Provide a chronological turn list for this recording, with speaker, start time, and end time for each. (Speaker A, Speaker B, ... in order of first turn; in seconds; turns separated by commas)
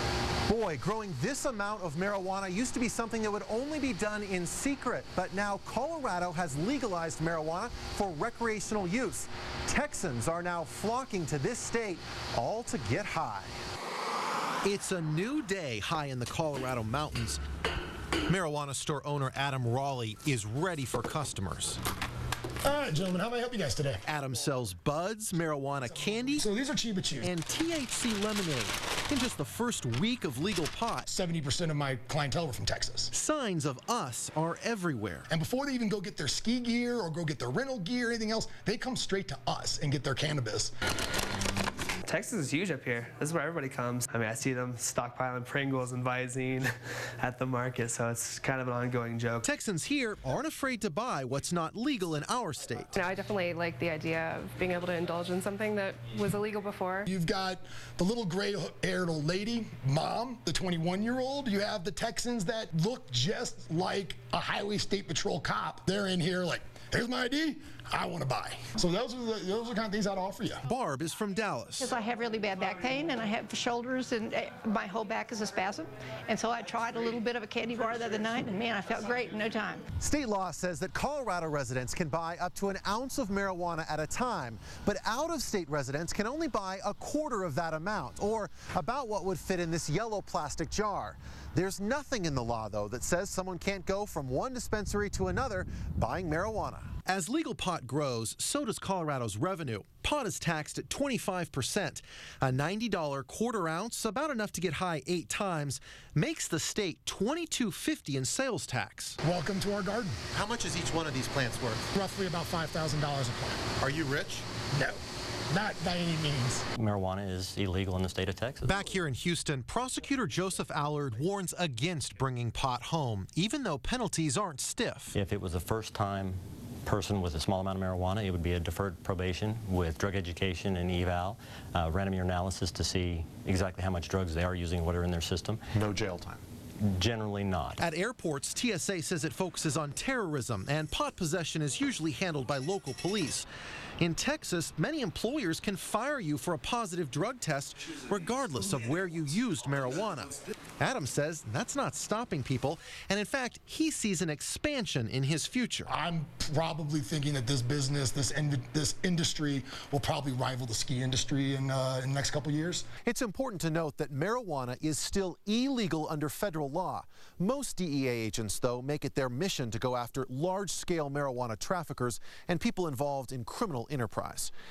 Speaker A: 0.5-13.6, Speaker A: 14.6-17.4, Speaker A: 18.3-21.8, Speaker B: 22.6-24.0, Speaker A: 24.1-26.4, Speaker B: 26.4-27.3, Speaker A: 27.2-31.1, Speaker B: 31.1-33.1, Speaker A: 33.1-35.3, Speaker B: 35.3-40.7, Speaker C: 42.0-49.4, Speaker A: 49.4-53.0, Speaker D: 53.0-57.1, Speaker B: 57.1-70.6, Speaker A: 70.7-71.9, Speaker E: 71.8-79.8, Speaker A: 80.0-109.2, Speaker B: 109.2-110.2, Speaker A: 110.3-111.9, Speaker B: 111.9-113.6, Speaker A: 113.8-114.5, Speaker B: 114.7-115.0, Speaker B: 115.5-116.6, Speaker F: 116.8-118.8, Speaker A: 118.6-125.2, Speaker F: 125.1-135.6, Speaker A: 135.7-136.4, Speaker F: 136.8-137.8, Speaker A: 137.8-143.5, Speaker A: 144.0-155.9, Speaker B: 155.9-162.8, Speaker A: 163.1-174.5